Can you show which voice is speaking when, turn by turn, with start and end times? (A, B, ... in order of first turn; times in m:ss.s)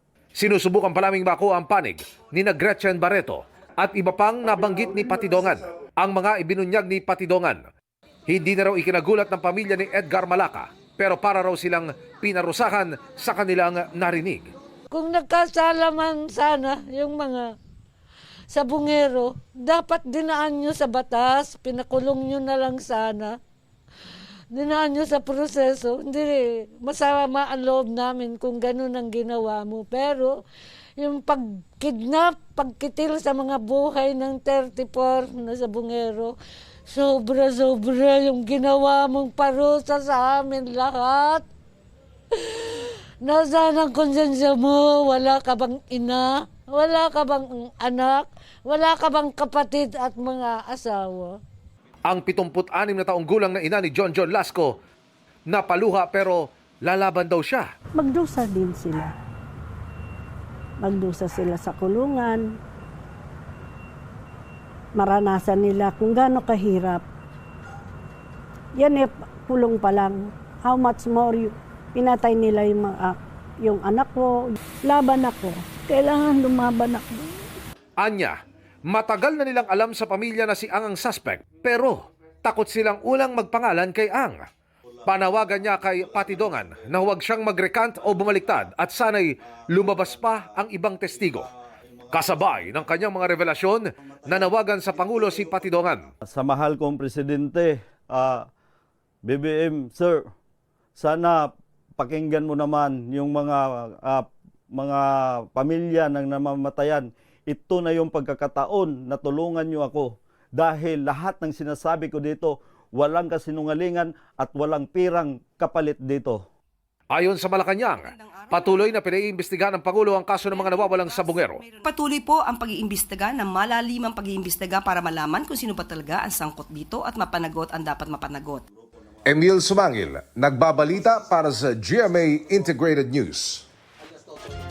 0:00.4-0:07.6 A
0:08.3-0:14.5 A
0:14.9-0:17.5 B
0:18.5-0:23.4 B
0:24.5-0:30.4 B
0:31.0-0:36.3 B
0:36.9-0:41.4 B
0:42.6-0:51.4 B
0:52.0-0:54.7 A
0:55.5-0:57.7 A
0:57.9-0:59.1 C
1:00.8-1:02.4 C
1:04.9-1:07.0 C
1:08.8-1:17.3 C
1:18.0-1:24.4 A
1:25.0-1:31.5 A
1:32.1-1:36.0 A
1:36.3-1:38.5 D
1:39.2-1:40.2 D
1:41.0-1:56.4 D
1:57.1-2:01.6 A
1:58.0-1:59.0 E
2:00.5-2:08.6 E
2:09.2-2:13.6 A